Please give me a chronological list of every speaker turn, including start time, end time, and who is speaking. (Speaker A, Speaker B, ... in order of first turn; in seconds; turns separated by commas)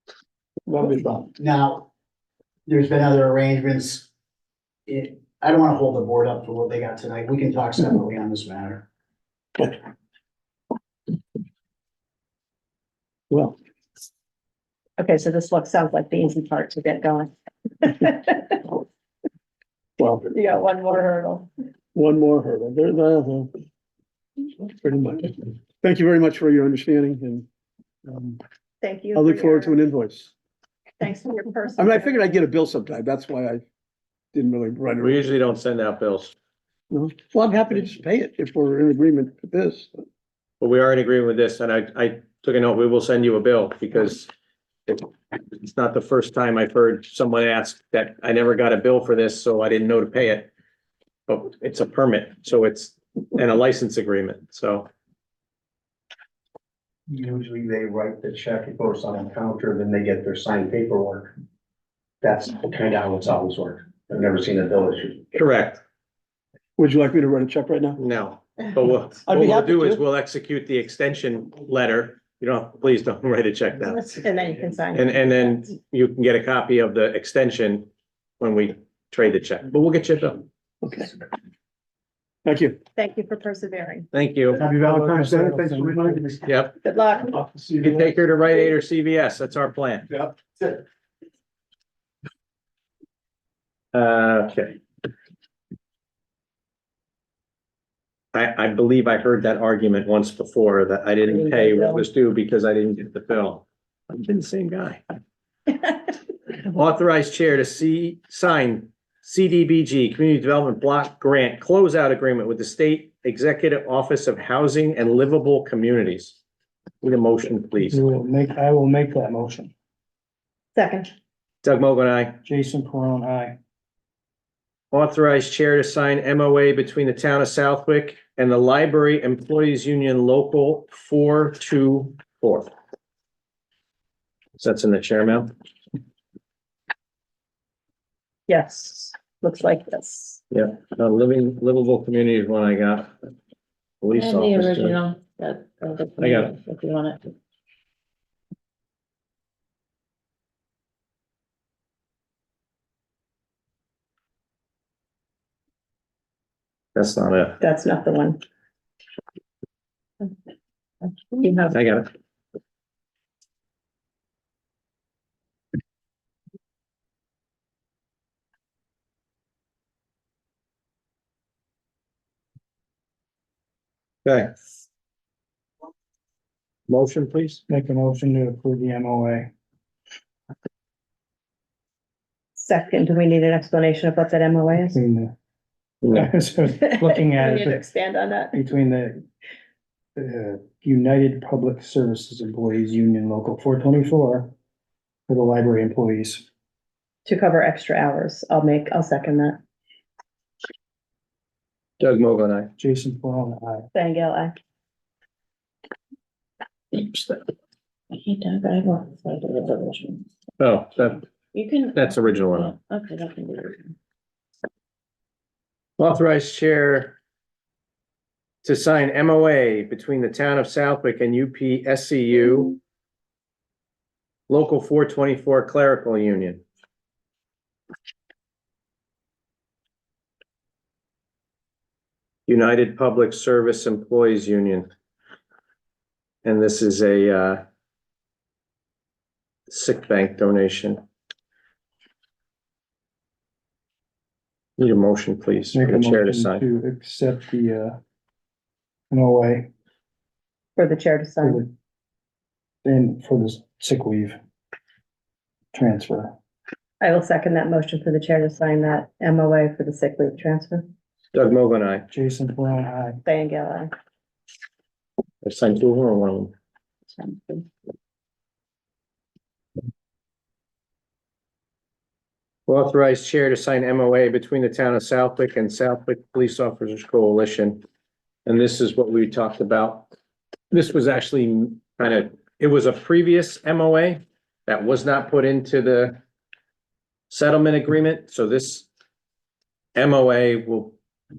Speaker A: 0.7-1.3, Speaker B: 1.4-1.9, Speaker B: 2.7-4.1, Speaker B: 4.9-8.8, Speaker A: 13.3-13.6, Speaker C: 15.0-18.6, Speaker A: 20.0-20.3, Speaker C: 20.3-21.5, Speaker A: 21.9-23.5, Speaker A: 24.6-27.5, Speaker A: 28.1-28.4, Speaker C: 28.8-29.8, Speaker A: 29.1-30.3, Speaker C: 31.0-32.1, Speaker A: 31.8-33.6, Speaker A: 34.3-35.2, Speaker D: 35.0-36.3, Speaker A: 36.9-40.0, Speaker D: 40.6-44.3, Speaker D: 44.9-50.5, Speaker D: 51.3-54.9, Speaker E: 57.1-61.3, Speaker E: 62.2-65.3, Speaker D: 65.3-65.8, Speaker A: 66.8-68.0, Speaker D: 68.0-74.1, Speaker A: 69.3-70.0, Speaker C: 74.0-75.6, Speaker D: 74.9-77.9, Speaker D: 78.4-80.5, Speaker A: 80.8-81.1, Speaker A: 82.5-82.8, Speaker C: 83.0-84.1, Speaker D: 84.1-84.6, Speaker E: 84.5-86.4, Speaker F: 84.6-86.3, Speaker D: 86.5-86.8, Speaker C: 86.8-87.4, Speaker E: 87.5-88.0, Speaker D: 87.8-90.1, Speaker E: 90.1-90.8, Speaker D: 93.9-94.8, Speaker D: 98.3-105.0, Speaker C: 101.2-102.1, Speaker D: 106.6-116.4, Speaker D: 117.0-118.0, Speaker F: 117.8-119.7, Speaker C: 120.8-121.1, Speaker D: 121.6-122.4, Speaker F: 122.4-123.6, Speaker D: 124.9-132.7, Speaker D: 134.6-135.5, Speaker C: 138.5-140.4, Speaker D: 140.5-143.3, Speaker D: 144.0-145.0, Speaker G: 144.2-145.9, Speaker C: 145.9-147.2, Speaker D: 146.2-146.6, Speaker D: 156.9-157.6, Speaker C: 157.6-158.4, Speaker C: 161.3-161.7, Speaker D: 161.7-162.1, Speaker D: 174.2-174.7, Speaker D: 176.9-177.6, Speaker F: 177.7-179.5, Speaker C: 182.6-185.0, Speaker F: 184.9-185.3, Speaker D: 186.0-186.3, Speaker F: 186.1-187.8, Speaker C: 186.8-188.6, Speaker F: 188.5-189.2, Speaker F: 190.2-194.5, Speaker F: 195.3-196.5, Speaker C: 197.2-199.6, Speaker D: 202.0-202.7, Speaker F: 202.8-203.9, Speaker C: 203.9-204.5, Speaker G: 208.2-209.3, Speaker C: 208.3-210.2, Speaker D: 210.6-211.2, Speaker G: 211.6-212.0, Speaker D: 211.9-212.7, Speaker G: 212.5-213.7, Speaker C: 213.2-213.7, Speaker D: 216.0-217.2, Speaker D: 218.6-222.8, Speaker D: 224.5-226.6, Speaker D: 232.5-234.9, Speaker D: 236.4-237.6, Speaker D: 239.7-241.0, Speaker D: 244.8-246.6, Speaker F: 245.7-248.0, Speaker F: 249.1-249.7, Speaker C: 250.8-251.6, Speaker F: 251.4-251.7, Speaker F: 252.8-254.4, Speaker F: 255.7-256.4, Speaker C: 257.0-260.9, Speaker D: 261.3-262.1, Speaker F: 262.1-263.2, Speaker C: 263.2-263.9, Speaker D: 265.4-266.5, Speaker C: 267.2-267.6, Speaker D: 272.7-277.8, Speaker D: 278.5-280.1, Speaker D: 280.7-286.2, Speaker D: 287.3-288.9, Speaker D: 289.9-291.0